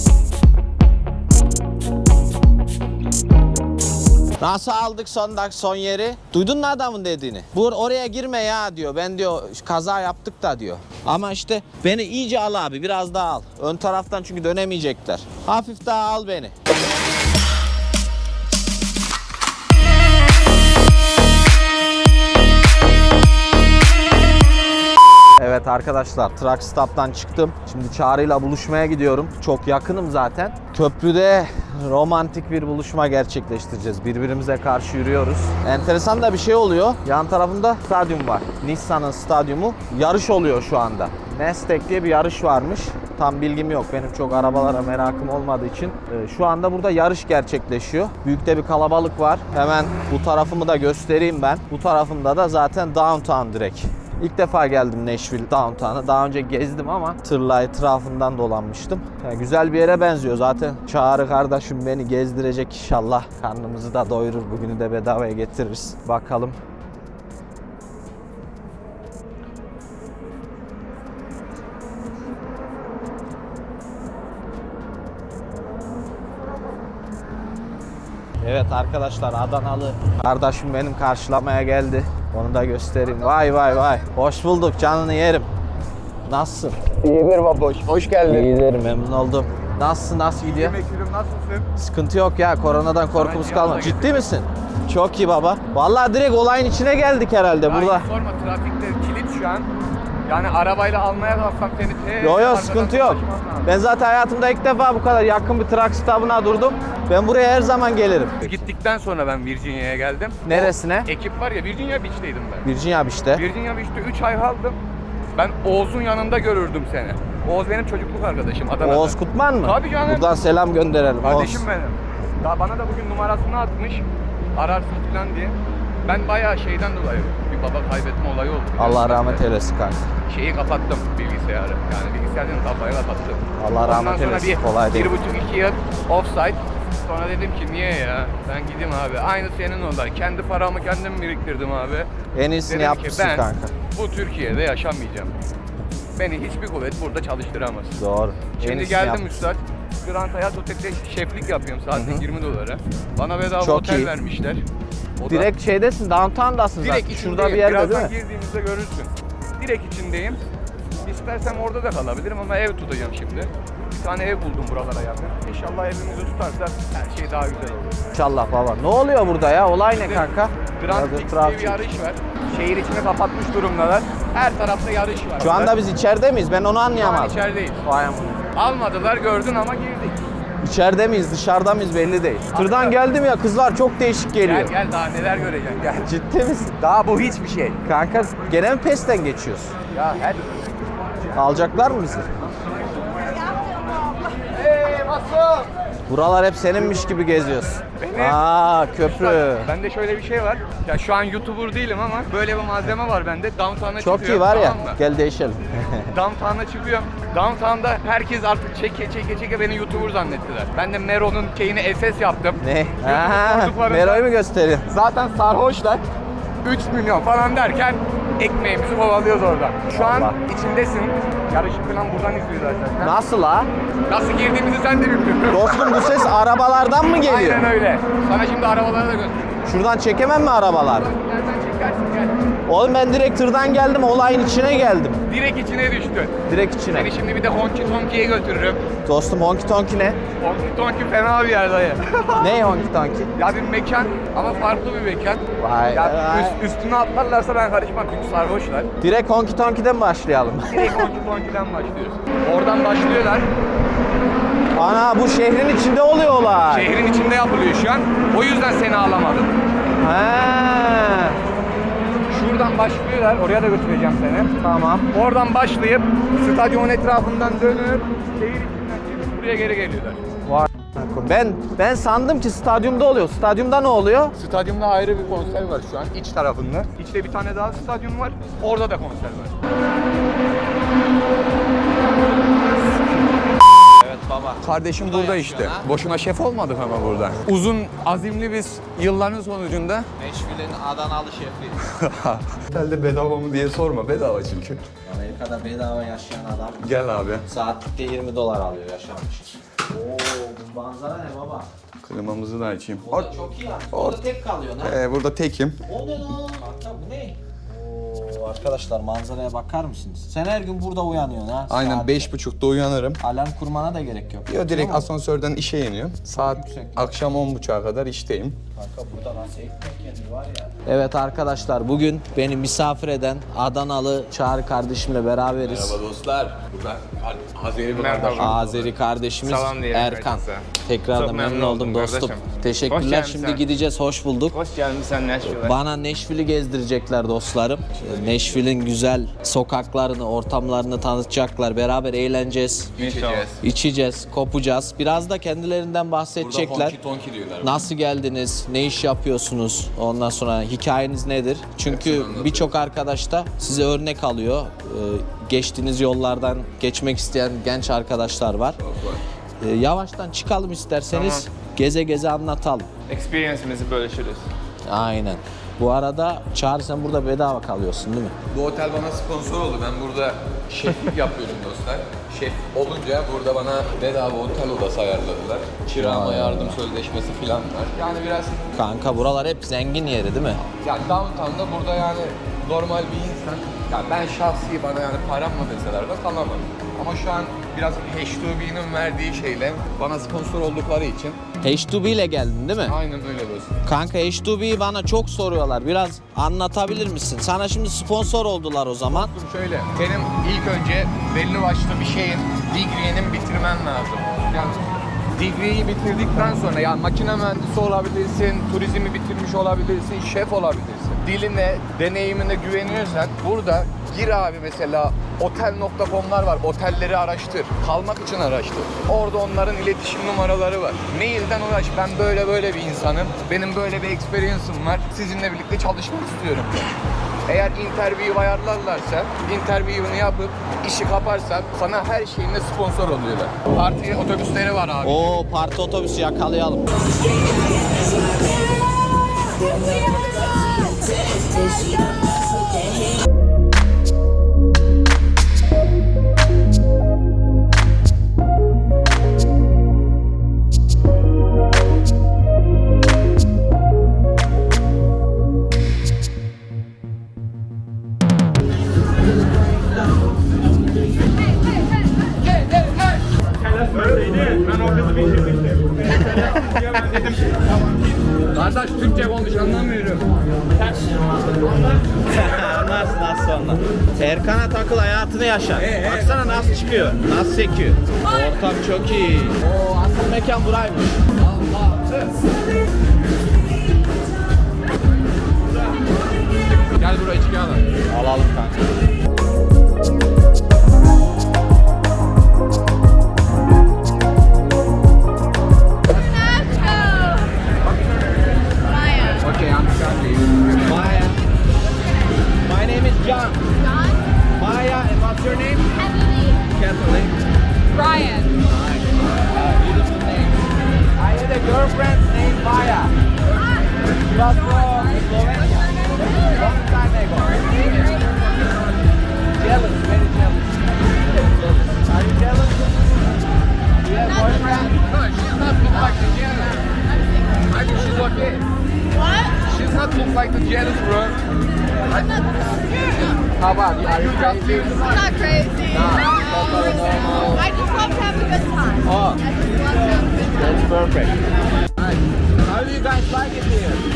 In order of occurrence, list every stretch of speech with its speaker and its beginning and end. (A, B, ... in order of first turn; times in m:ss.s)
0:04.4-0:16.5 A
0:25.4-1:06.6 A
1:18.4-1:25.5 A
1:26.2-1:26.8 A
1:26.9-1:28.5 B
1:28.3-1:30.8 A
1:30.4-1:31.7 B
1:31.8-1:38.1 A
1:33.1-1:34.2 B
1:37.6-1:39.7 B
1:40.3-1:43.7 B
1:42.2-1:48.7 A
1:48.4-1:52.6 B
1:50.4-1:51.1 A
1:52.6-1:53.4 A
1:53.3-1:54.8 B
1:55.3-2:00.3 B
1:58.8-2:01.6 A
2:01.2-2:09.4 B
2:08.8-2:10.0 A
2:10.3-2:22.1 B
2:13.6-2:15.1 A
2:22.3-2:23.7 A
2:22.7-2:25.3 B
2:26.2-2:28.0 B
2:28.0-2:29.3 A
2:28.6-2:34.6 B
2:31.9-2:32.2 A
2:33.6-2:34.1 A
2:35.2-2:35.5 B
2:35.3-2:38.1 A
2:36.8-2:40.4 B
2:41.0-2:48.0 B
2:48.1-2:51.8 A
2:49.9-2:55.7 B
2:55.4-2:58.4 A
2:57.0-2:57.8 B
2:58.5-3:00.2 B
3:00.6-3:04.7 A
3:02.5-3:03.0 B
3:04.4-3:06.1 B
3:06.0-3:06.8 A
3:06.8-3:07.8 B
3:07.8-3:09.7 A
3:09.9-3:10.5 B
3:11.3-3:12.3 A
3:14.4-3:15.7 B
3:16.1-3:19.7 A
3:18.0-3:18.4 B
3:19.0-3:25.0 B
3:24.0-3:26.1 A
3:26.1-3:34.2 B
3:32.6-3:34.9 A
3:34.9-3:36.0 B
3:36.6-3:43.1 B
3:39.9-3:40.4 A
3:43.0-3:43.7 A
3:44.1-3:46.1 B
3:45.5-3:47.7 A
3:47.2-3:49.6 B
3:49.6-3:51.1 A
3:50.9-3:52.4 B
3:52.7-3:55.2 A
3:55.3-3:56.4 B
3:56.5-3:57.1 A
3:56.9-3:58.8 B
3:59.0-4:00.2 A
4:00.4-4:02.5 B
4:02.4-4:03.3 A
4:03.4-4:08.9 B
4:05.6-4:06.6 A
4:09.0-4:11.1 A
4:10.7-4:13.5 B
4:14.7-4:16.9 A
4:16.7-4:19.5 B
4:20.0-4:21.4 A
4:22.3-4:24.5 B
4:24.6-4:25.1 A
4:25.1-4:30.2 B
4:30.4-4:34.3 A
4:34.4-4:39.5 B
4:44.0-4:45.9 A
4:44.6-4:50.0 B
4:50.2-4:51.8 A
4:51.8-4:54.9 B
4:55.0-4:56.9 A
4:56.8-4:57.4 B
4:57.4-5:01.7 A
5:02.0-5:03.4 B
5:03.0-5:05.0 A
5:03.9-5:04.2 B
5:04.8-5:05.8 B
5:05.8-5:12.3 A
5:11.7-5:13.2 B
5:13.2-5:15.1 A
5:14.5-5:18.6 B
5:16.3-5:17.2 A
5:18.7-5:26.0 A
5:25.6-5:28.9 B
5:27.9-5:28.6 C
5:28.3-5:34.6 A
5:29.4-5:33.6 C
5:34.5-5:35.8 C
5:35.4-5:43.0 A
5:38.0-5:38.6 B
5:43.0-5:43.6 B
5:43.0-5:43.5 C
5:43.6-5:47.0 A
5:46.4-5:47.8 B
5:47.6-5:58.8 A
5:51.8-5:52.7 B
5:58.8-5:59.2 B
5:59.6-6:02.9 A
6:01.1-6:01.4 C
6:03.1-6:04.5 C
6:04.8-6:08.3 A
6:08.5-6:18.7 B
6:15.9-6:16.8 A
6:18.7-6:20.6 A
6:20.8-6:31.4 B
6:31.6-6:32.9 A
6:32.8-6:33.8 B
6:33.8-6:39.3 A
6:39.1-6:44.8 B
6:45.3-7:06.9 B
7:07.4-7:15.3 B
7:15.0-7:16.9 A
7:43.7-7:48.0 C
7:46.2-7:46.6 A
7:48.5-7:50.2 B
7:52.2-8:01.2 A
7:55.8-7:56.6 B
8:01.4-8:02.3 B
8:06.8-8:07.9 B
8:08.1-8:08.9 A
8:16.2-8:17.5 D
8:18.0-8:18.3 B
8:18.9-8:19.4 D
8:19.4-8:21.1 B
8:20.8-8:21.4 A
8:22.6-8:23.6 A
8:23.8-8:24.2 D
8:24.6-8:25.9 A
8:26.0-8:26.6 D
8:26.7-8:27.4 A
8:27.9-8:28.6 D
8:28.7-8:30.6 A
8:31.2-8:33.1 A
8:34.1-8:37.7 A
8:34.4-8:36.6 D
8:37.8-8:38.3 D
8:39.6-8:40.7 A
8:41.3-8:42.8 A
8:44.0-8:44.9 A
8:44.4-8:44.8 D
8:44.9-8:46.8 B
8:47.6-8:48.6 B
8:49.2-8:49.5 D
8:49.6-8:51.4 B
8:53.6-8:55.0 A
8:53.6-8:55.3 B
8:55.1-9:00.5 D
8:55.9-8:57.8 A
8:59.0-8:59.4 A
9:00.4-9:01.4 A
9:02.6-9:04.0 A